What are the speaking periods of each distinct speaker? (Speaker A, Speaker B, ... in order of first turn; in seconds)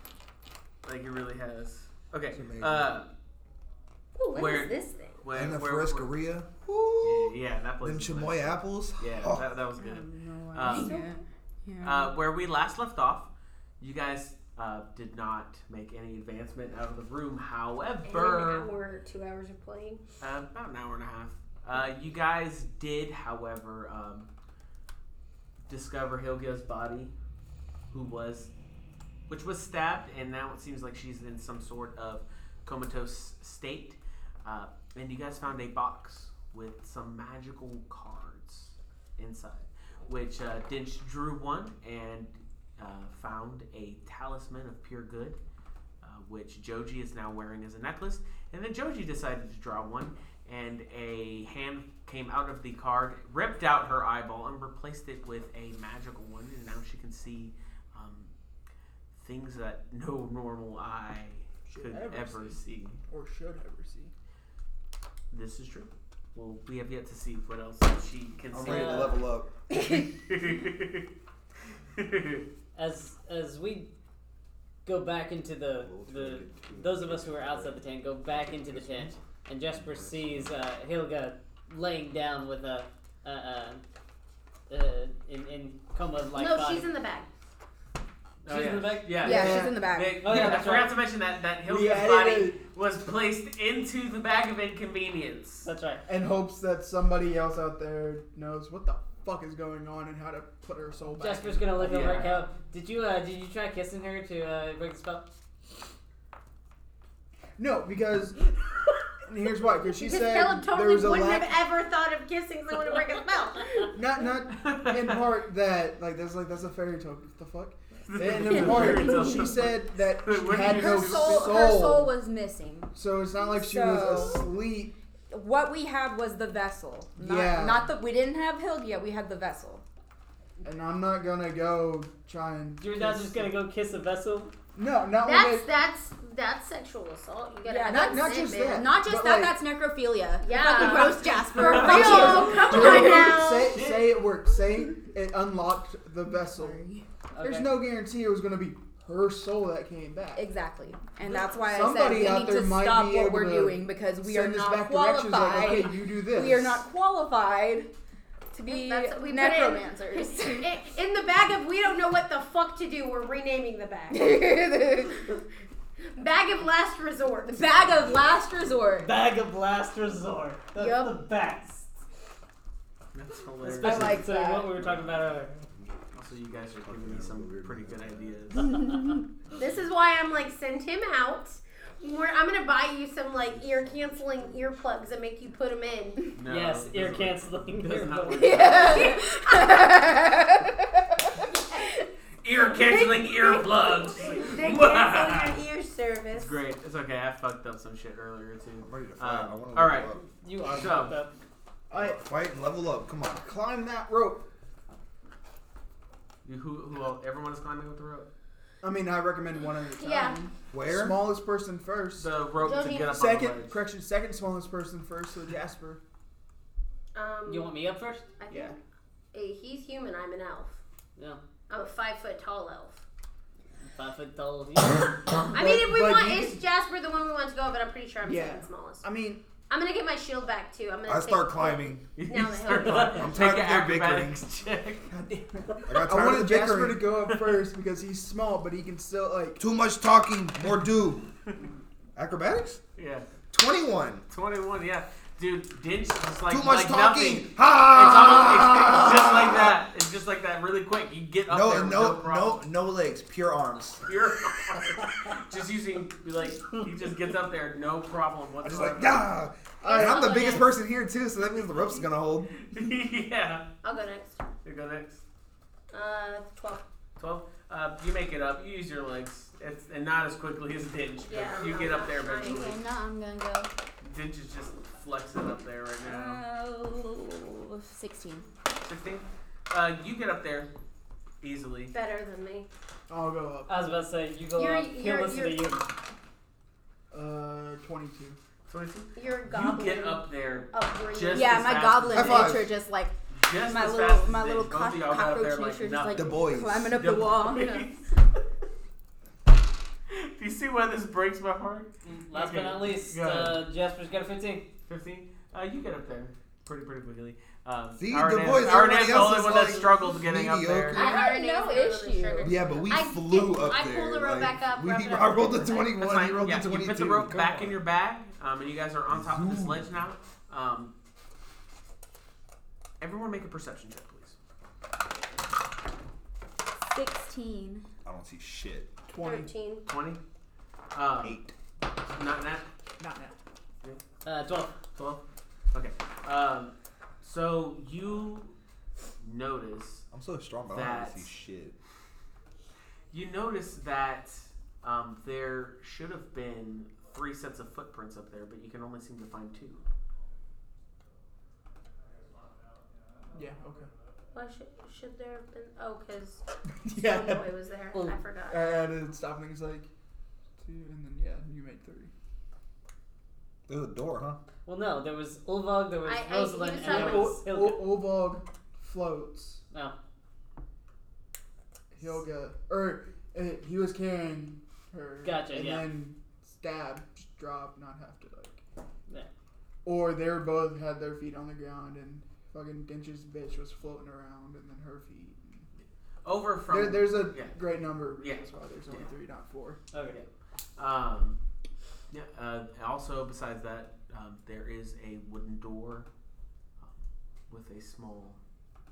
Speaker A: 0.8-3.1, 4.3-6.1, 7.0-11.1, 11.8-13.3, 13.8-18.7, 20.2-24.3, 25.7-27.1, 27.9-28.5, 29.3-45.4, 46.0-58.3, 59.1-63.0, 65.3-69.2, 69.8-71.1, 71.9-72.5, 88.5-95.7, 101.8-102.4, 114.5-115.2, 118.1-121.5, 141.7-142.2, 143.7-144.1, 173.1-174.2, 174.8-175.2, 176.2-178.9, 186.3-189.2, 192.4-195.6, 196.3-200.1, 200.7-201.2, 206.4-208.3, 212.2-213.8, 232.2-235.1, 237.3-237.6, 243.0-243.3, 244.3-252.7, 254.1-259.3, 262.5-263.6, 264.6-265.2, 267.2-272.8, 274.0-276.4, 278.8-280.7, 281.4-281.9, 288.7-292.6, 293.3-298.1, 300.1-303.6, 304.9-311.0, 316.0-320.9, 323.0-324.3, 329.9-330.2, 330.9-331.4, 332.1-332.6, 334.9-335.2, 335.7-338.5, 339.2-340.1, 340.7-341.3, 343.1-349.8, 386.2-387.6, 388.2-389.0, 390.1-391.4, 392.1-396.1, 396.8-398.4
Speaker B: 2.3-2.9, 5.3-9.4, 68.5-69.5, 75.8-77.8, 78.5-79.2, 79.7-80.5, 175.5-175.9, 176.7-178.3, 183.6-184.8, 198.8-200.2, 201.9-203.4, 210.7-211.2, 231.1-232.1, 233.2-234.4, 235.8-237.1, 239.6-241.2, 242.2-242.8, 243.5-244.3, 246.5-249.8, 251.5-254.1, 258.6-262.5, 292.1-292.7, 296.1-296.9, 308.0-311.1, 312.4-317.8, 319.1-320.0, 328.0-328.9, 331.2-331.5, 340.1-341.7, 363.7-364.4
Speaker C: 4.2-5.2, 10.7-11.0, 18.0-20.0, 86.3-87.3, 110.0-113.9, 135.2-138.8, 140.4-143.8, 158.7-164.2, 166.1-167.6, 170.8-171.2, 179.6-186.3, 188.7-189.9, 192.7-196.5, 210.0-210.4, 212.6-213.1, 217.1-217.7, 218.4-218.8, 219.3-220.8, 221.7-223.0, 225.5-229.1, 229.7-233.3, 259.8-260.7, 263.8-264.4, 265.9-266.8, 271.2-272.6, 281.9-282.7, 284.6-285.7, 289.1-291.7, 310.9-316.0, 329.2-329.8, 354.3-356.4, 356.9-358.6, 366.0-367.4
Speaker D: 9.8-12.1, 89.2-90.4, 118.7-119.5, 120.5-124.5, 125.3-129.8, 137.7-143.3, 146.3-147.1, 150.3-157.9, 158.5-160.8, 164.1-165.2, 167.5-169.1, 173.8-174.7, 188.3-191.2, 260.1-260.5, 272.4-273.7, 276.0-278.5, 291.3-297.9, 310.9-312.6, 326.8-327.8
Speaker E: 61.7-64.1, 89.3-89.8, 90.4-90.8, 91.6-92.6, 96.1-102.3, 107.6-108.4, 109.2-111.5, 113.9-122.2, 122.9-124.9, 127.2-127.9, 130.6-133.5, 134.8-135.7, 137.9-139.6, 140.7-146.8, 147.4-150.5, 151.2-156.8, 201.9-202.2, 203.3-204.4, 208.8-212.3, 213.0-216.0, 218.5-218.7, 225.5-226.6, 228.2-229.4, 235.1-239.6, 283.1-284.0, 287.1-288.4, 329.1-329.5, 333.0-333.3, 353.3-353.9, 356.8-357.4, 358.5-359.9, 360.6-362.1, 366.8-369.6, 371.9-378.6, 379.8-385.7, 386.7-389.8
Speaker F: 68.6-69.2, 72.8-73.9, 74.8-83.8, 84.7-86.9, 88.5-89.6, 90.1-91.0, 95.6-96.0, 101.2-105.3, 132.8-134.5, 142.3-142.8, 147.3-147.8, 169.0-171.9, 173.6-175.5, 186.5-189.0, 200.3-201.3, 217.5-218.3, 223.8-225.2, 232.7-233.3, 283.7-285.9, 302.1-304.7, 334.2-334.8, 364.6-367.9, 375.2-375.9, 389.9-390.2